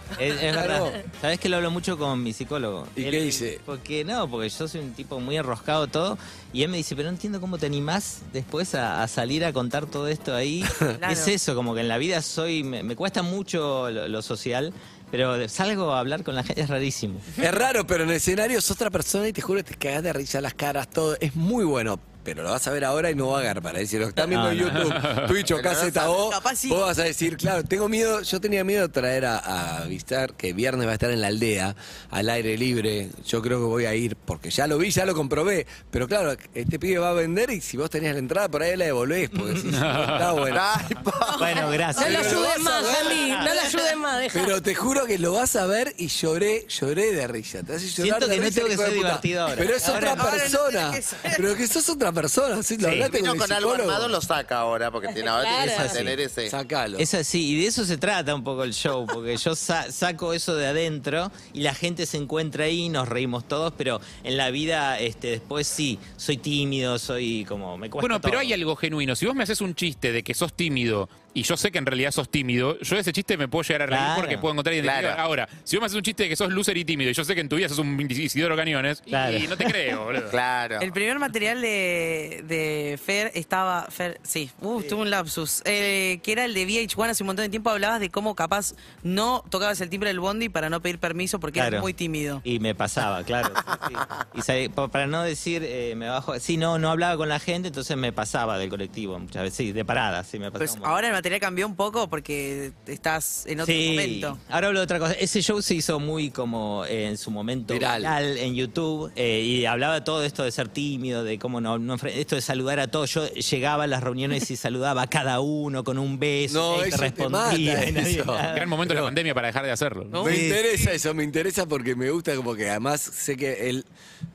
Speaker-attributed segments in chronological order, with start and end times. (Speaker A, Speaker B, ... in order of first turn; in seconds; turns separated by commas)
Speaker A: 0.2-17.3, Speaker B: 0.4-1.0, Speaker B: 3.0-3.6, Speaker B: 10.7-10.9, Speaker C: 11.0-11.3, Speaker B: 17.4-40.6, Speaker A: 24.3-24.9, Speaker D: 24.7-25.3, Speaker E: 25.4-26.1, Speaker C: 26.1-26.9, Speaker A: 39.3-39.8, Speaker D: 39.7-40.6, Speaker E: 40.5-41.7, Speaker A: 41.4-44.0, Speaker F: 42.0-44.5, Speaker B: 42.0-43.3, Speaker B: 44.3-54.2, Speaker A: 48.0-50.5, Speaker C: 49.6-51.5, Speaker A: 52.8-53.1, Speaker E: 53.0-56.5, Speaker F: 55.4-56.0, Speaker A: 55.5-56.2, Speaker B: 56.5-57.1, Speaker A: 57.0-68.5, Speaker D: 68.0-80.4, Speaker A: 73.9-74.5, Speaker E: 74.8-75.2, Speaker A: 79.1-79.7, Speaker E: 80.3-80.9, Speaker C: 80.8-92.4, Speaker A: 91.5-91.9, Speaker A: 92.4-101.0, Speaker E: 93.7-94.0, Speaker C: 100.6-104.4, Speaker A: 103.6-118.7, Speaker B: 107.7-108.1, Speaker B: 116.5-119.1, Speaker D: 118.5-120.4, Speaker C: 120.1-121.0, Speaker B: 120.2-123.9